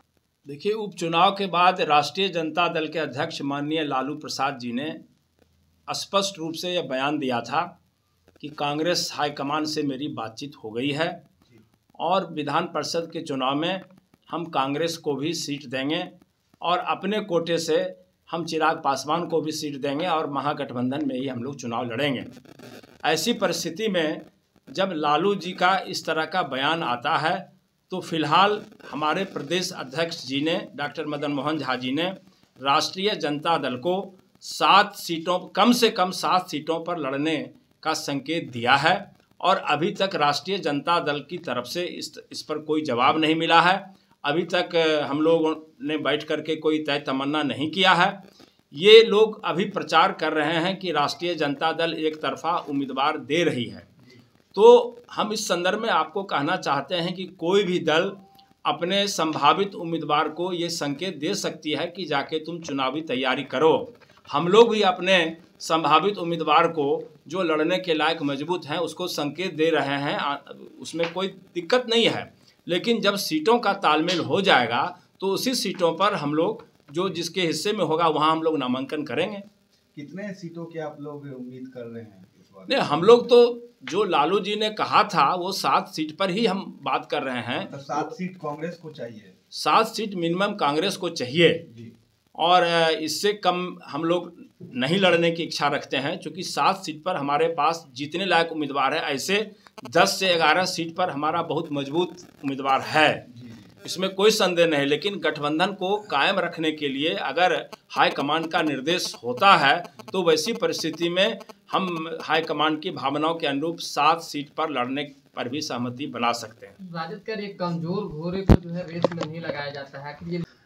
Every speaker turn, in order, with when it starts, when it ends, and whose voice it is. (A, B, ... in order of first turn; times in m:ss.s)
0:00.5-0:05.0 A
0:05.9-0:07.7 A
0:08.4-0:11.2 A
0:12.0-0:22.3 A
0:23.0-0:53.9 A
0:54.5-1:19.5 A
1:19.9-1:23.0 B
1:22.7-1:28.0 A
1:27.7-1:29.3 B
1:29.5-1:31.6 A
1:31.7-1:31.9 B
1:32.4-1:43.3 A
1:43.8-1:56.8 A
1:56.8-2:00.4 C